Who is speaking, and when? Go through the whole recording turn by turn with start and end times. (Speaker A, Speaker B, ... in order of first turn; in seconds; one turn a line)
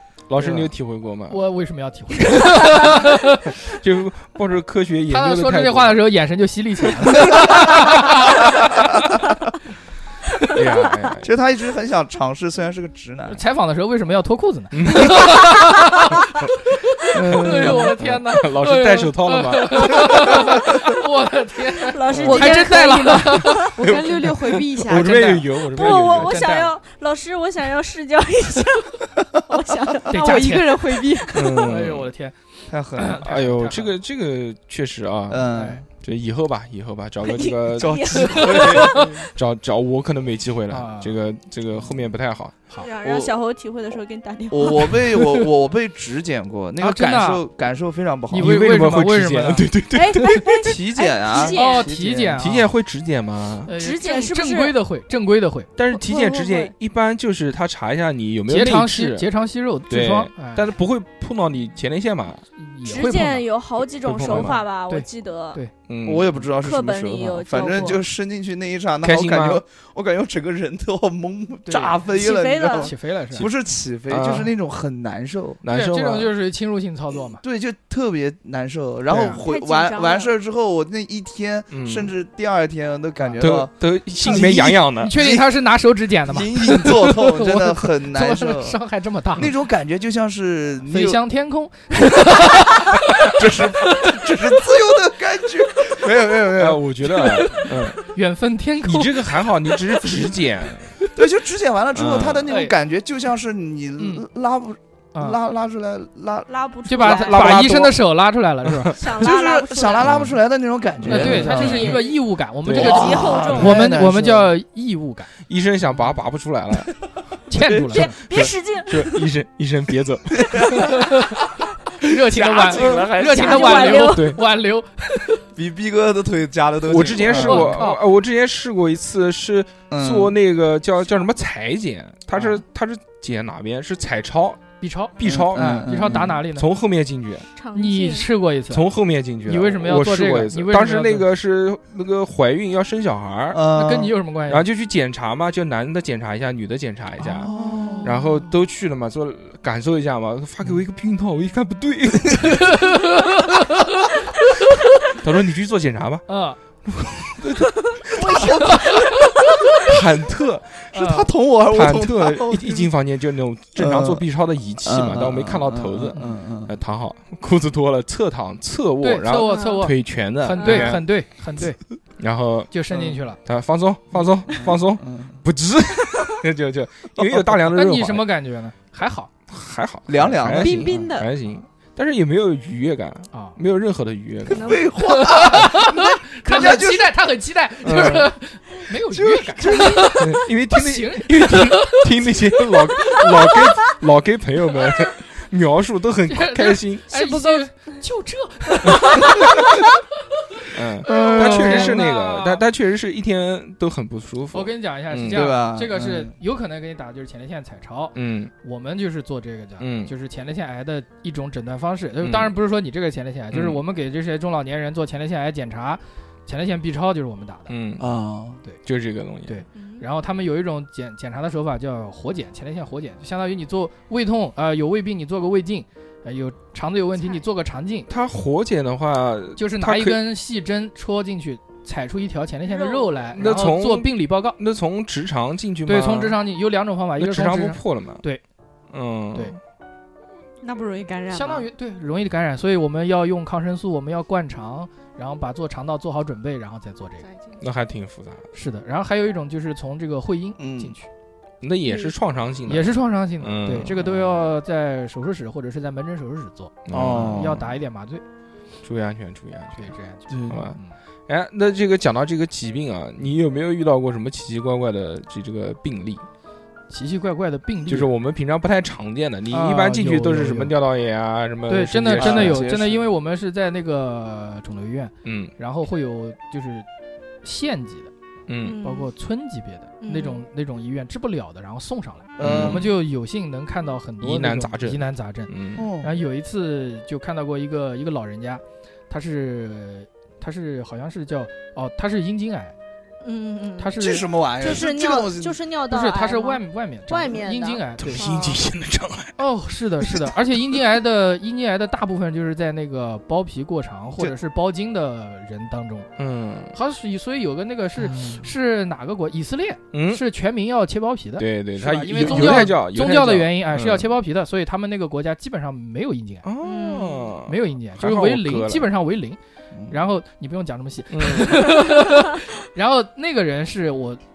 Speaker A: 0.3-1.4
Speaker B: 0.4-0.7
Speaker C: 1.3-3.5
Speaker A: 2.8-6.0
Speaker C: 5.1-8.9
Speaker A: 10.5-11.3
Speaker B: 11.2-13.4
Speaker C: 13.3-16.3
Speaker A: 14.7-15.5
Speaker C: 16.8-23.7
Speaker B: 17.1-17.9
Speaker A: 17.2-20.5
Speaker D: 21.8-23.7
Speaker E: 22.3-23.2
Speaker E: 23.7-25.3
Speaker A: 23.9-26.4
Speaker C: 24.9-26.7
Speaker D: 25.7-31.2
Speaker C: 30.1-30.8
Speaker E: 30.1-31.5
Speaker A: 31.3-32.1
Speaker C: 31.6-32.4
Speaker B: 32.7-33.2
Speaker C: 33.0-34.0
Speaker A: 33.2-42.5
Speaker B: 35.3-35.9
Speaker C: 35.5-35.8
Speaker D: 37.2-39.2
Speaker B: 37.8-39.2
Speaker C: 40.7-41.2
Speaker D: 42.8-45.1
Speaker B: 43.0-43.3
Speaker B: 44.5-48.6
Speaker C: 46.8-47.4
Speaker C: 48.3-49.7
Speaker A: 48.4-50.5
Speaker D: 49.9-51.9
Speaker B: 50.6-52.5
Speaker C: 51.5-52.7
Speaker A: 52.4-53.7
Speaker C: 53.6-55.7
Speaker D: 53.8-54.8
Speaker A: 55.8-59.3
Speaker D: 55.9-56.7
Speaker C: 58.5-60.7
Speaker A: 59.9-62.5
Speaker C: 62.6-63.5
Speaker D: 62.8-65.6
Speaker A: 64.0-64.6
Speaker C: 64.2-65.7
Speaker A: 65.9-66.3
Speaker B: 66.0-75.6
Speaker D: 66.5-68.1
Speaker A: 69.0-69.6
Speaker C: 71.7-73.5
Speaker D: 72.1-72.9
Speaker A: 74.1-74.5
Speaker A: 75.6-76.3
Speaker C: 75.7-77.4
Speaker B: 77.4-85.4
Speaker C: 79.1-79.4
Speaker D: 79.3-80.3
Speaker A: 81.7-82.1
Speaker C: 83.2-83.5
Speaker A: 83.4-85.1
Speaker C: 84.2-89.5
Speaker B: 86.3-88.8
Speaker B: 89.4-91.2
Speaker C: 90.9-94.4
Speaker B: 93.2-96.8
Speaker A: 96.5-98.0
Speaker C: 97.0-100.2
Speaker A: 98.8-101.0
Speaker B: 101.2-106.5
Speaker A: 101.9-102.5
Speaker C: 102.5-102.7
Speaker C: 104.0-104.2
Speaker C: 105.1-105.4
Speaker D: 106.5-107.6
Speaker C: 106.9-109.0
Speaker A: 107.0-108.0
Speaker A: 108.7-109.0
Speaker D: 109.0-110.1
Speaker B: 109.2-112.0
Speaker A: 110.0-110.4
Speaker A: 111.0-111.9
Speaker D: 111.1-112.2
Speaker C: 111.1-115.3
Speaker A: 112.6-113.5
Speaker D: 112.7-113.9
Speaker B: 112.8-114.5
Speaker A: 115.5-116.9
Speaker C: 117.5-118.2
Speaker B: 117.6-118.4
Speaker D: 117.8-119.3
Speaker A: 118.2-120.7
Speaker B: 120.4-120.8
Speaker C: 120.7-121.4
Speaker C: 122.0-125.4
Speaker B: 122.0-124.1
Speaker D: 122.7-124.3
Speaker A: 124.1-124.4
Speaker B: 125.5-127.8
Speaker A: 126.8-134.6
Speaker C: 126.9-128.0
Speaker B: 129.9-130.3
Speaker C: 134.8-136.7
Speaker A: 135.2-137.5
Speaker B: 135.2-136.4
Speaker D: 137.6-138.3
Speaker C: 137.7-138.9
Speaker A: 138.7-143.6
Speaker C: 139.4-141.3
Speaker B: 143.5-144.2
Speaker C: 143.7-144.7
Speaker A: 144.5-147.5
Speaker C: 147.2-148.3
Speaker B: 147.4-148.3
Speaker A: 148.0-152.8
Speaker C: 152.6-154.1
Speaker A: 155.2-156.2
Speaker C: 156.3-156.6
Speaker A: 156.8-158.7
Speaker B: 158.1-159.2
Speaker C: 158.7-158.9
Speaker A: 159.8-160.9
Speaker C: 160.9-161.3
Speaker B: 160.9-162.9
Speaker A: 161.7-171.1
Speaker B: 163.8-164.2
Speaker B: 164.8-166.7
Speaker C: 169.0-171.8
Speaker D: 169.3-169.9
Speaker D: 170.6-171.0
Speaker A: 172.2-172.7
Speaker C: 172.7-173.4
Speaker A: 173.4-178.2
Speaker B: 174.5-175.4
Speaker C: 177.3-179.3
Speaker A: 179.5-184.8
Speaker B: 180.1-181.1
Speaker E: 180.5-181.3
Speaker C: 183.3-183.6
Speaker D: 184.5-185.0
Speaker B: 184.6-187.1
Speaker C: 185.0-193.6
Speaker A: 187.8-188.3
Speaker B: 189.1-190.3
Speaker A: 190.2-197.1
Speaker C: 196.3-199.8
Speaker D: 197.1-197.7
Speaker A: 200.7-205.6
Speaker C: 201.0-202.6
Speaker B: 201.1-202.0
Speaker C: 204.5-217.7
Speaker B: 205.3-206.3
Speaker A: 208.2-208.5
Speaker A: 209.8-210.1
Speaker A: 212.2-212.5
Speaker A: 213.5-213.8
Speaker A: 217.7-218.1
Speaker B: 218.0-218.6
Speaker A: 218.8-219.6
Speaker C: 219.5-228.1
Speaker D: 219.8-220.1
Speaker D: 227.2-227.4
Speaker A: 228.1-230.2
Speaker C: 229.6-234.6
Speaker D: 232.7-233.3
Speaker A: 233.3-236.4
Speaker C: 235.9-238.4
Speaker A: 237.2-238.2
Speaker A: 238.9-239.6
Speaker E: 240.6-241.6
Speaker C: 241.3-247.3
Speaker D: 247.3-247.6
Speaker A: 247.6-248.4
Speaker C: 248.5-251.1
Speaker B: 250.6-250.9
Speaker A: 251.6-254.3
Speaker C: 252.7-258.2
Speaker A: 256.9-257.6
Speaker B: 256.9-257.7
Speaker A: 258.8-259.9
Speaker C: 259.8-261.0
Speaker B: 260.3-260.6
Speaker A: 260.5-266.3
Speaker C: 266.9-268.1
Speaker A: 267.9-272.6
Speaker C: 269.5-270.7
Speaker C: 271.7-276.9
Speaker B: 272.1-273.1
Speaker A: 275.2-275.5
Speaker C: 277.4-278.1
Speaker A: 278.5-278.8
Speaker D: 278.6-279.1
Speaker C: 278.8-292.7
Speaker D: 280.0-280.4
Speaker B: 282.4-282.9
Speaker A: 282.4-282.9
Speaker A: 284.2-285.9
Speaker B: 285.8-286.1
Speaker D: 293.2-294.0
Speaker C: 293.8-294.8
Speaker B: 294.0-295.6
Speaker D: 294.6-298.6
Speaker C: 295.9-298.3
Speaker A: 298.0-299.4
Speaker C: 299.4-306.1
Speaker A: 300.0-300.3
Speaker A: 306.2-306.8
Speaker C: 306.7-316.5
Speaker A: 309.9-310.2
Speaker A: 311.4-314.1
Speaker A: 316.4-318.9
Speaker D: 316.6-317.4
Speaker C: 317.5-319.4
Speaker C: 319.9-324.2
Speaker A: 321.1-321.7